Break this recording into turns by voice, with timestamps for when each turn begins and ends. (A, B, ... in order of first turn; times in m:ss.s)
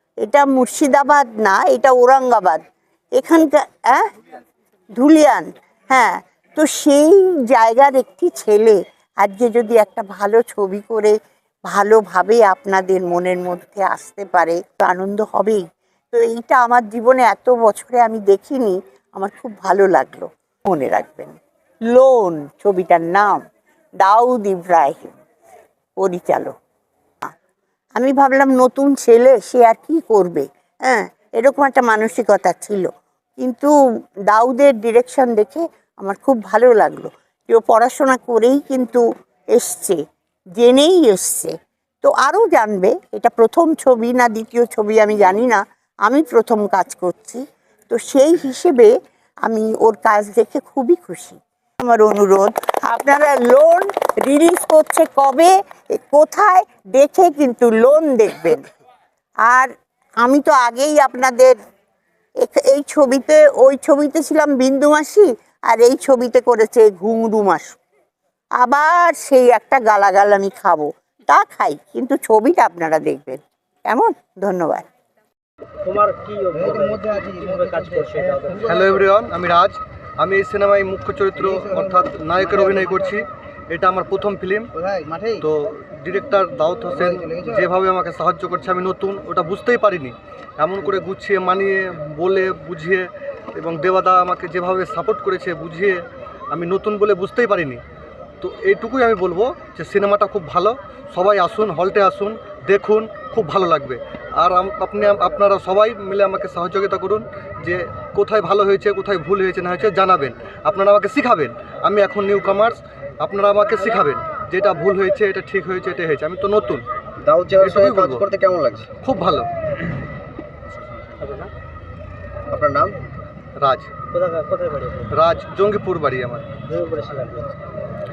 0:00.2-0:02.6 A
0:03.2-0:04.1 A
0:04.9-0:21.3 A
0:21.9-0:23.4 A
0:24.0-0:25.2 A
0:26.0-0:26.5 A
0:28.0-0:33.7 A
0:34.3-0:40.0 A
0:40.6-0:48.9 A
0:49.4-0:58.6 A
0:59.4-1:01.6 A
1:02.4-1:07.8 A
1:08.6-1:14.8 A
1:15.8-1:18.6 B
1:16.5-1:18.9 C
1:18.6-1:24.7 D
1:21.4-1:23.1 C
1:24.7-1:25.4 C
1:25.4-1:37.8 D
1:27.0-1:27.6 C
1:38.4-1:56.8 D
1:57.2-1:58.9 C
1:57.6-1:58.2 D
1:59.0-1:59.5 D
2:01.2-2:01.5 B
2:02.5-2:03.0 C
2:03.6-2:03.9 D
2:04.1-2:05.1 B
2:05.1-2:06.5 D
2:06.7-2:07.6 B